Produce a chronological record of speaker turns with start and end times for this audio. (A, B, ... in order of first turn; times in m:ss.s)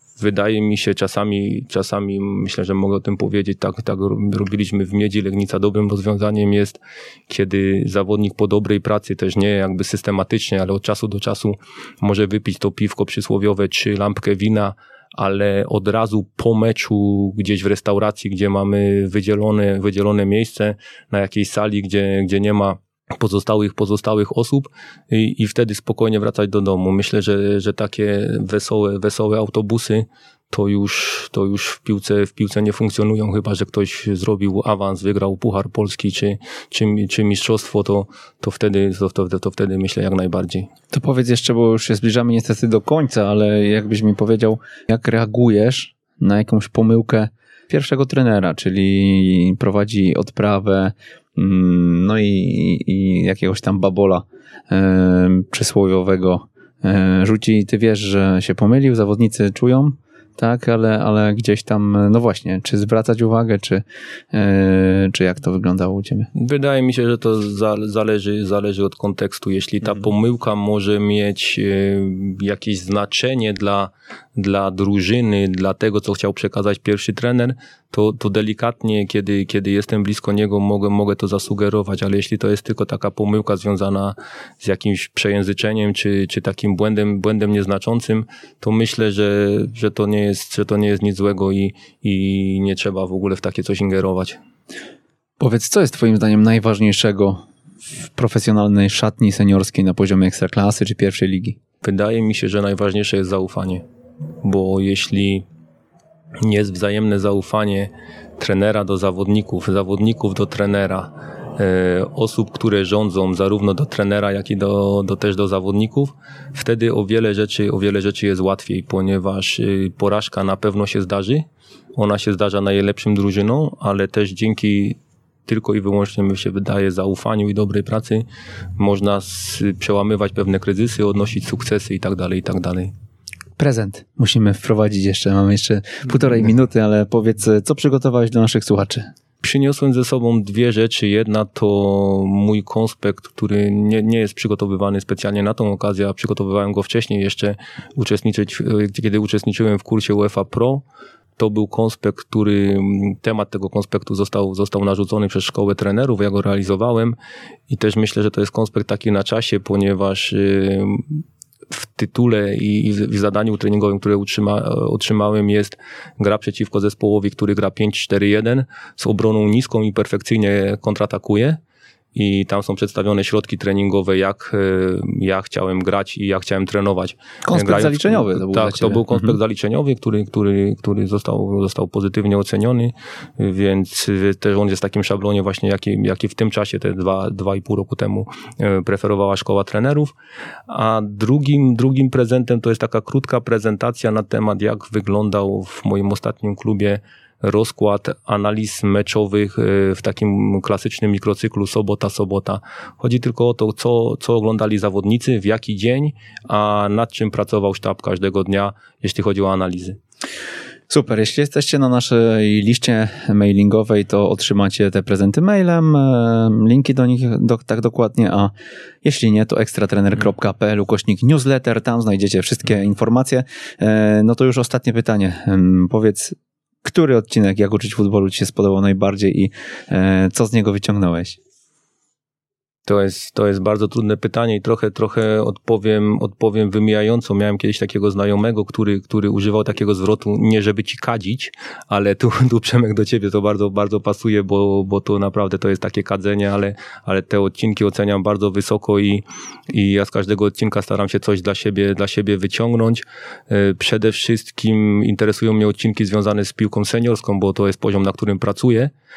0:00.2-0:40.7 A
0:40.9-1:06.3 B
1:06.3-1:34.4 A
1:35.4-1:41.6 B
1:41.8-1:43.8 A
1:44.4-1:45.4 A
1:46.4-2:08.2 A
2:08.8-2:12.9 A
2:13.6-2:19.1 B
2:19.4-2:30.8 A
2:31.4-2:37.2 A
2:37.7-2:51.6 A
2:52.1-3:10.2 A
2:57.4-2:59.4 B
3:10.7-3:30.0 A
3:30.9-3:38.5 B
3:39.0-3:51.4 B
3:52.9-4:18.9 A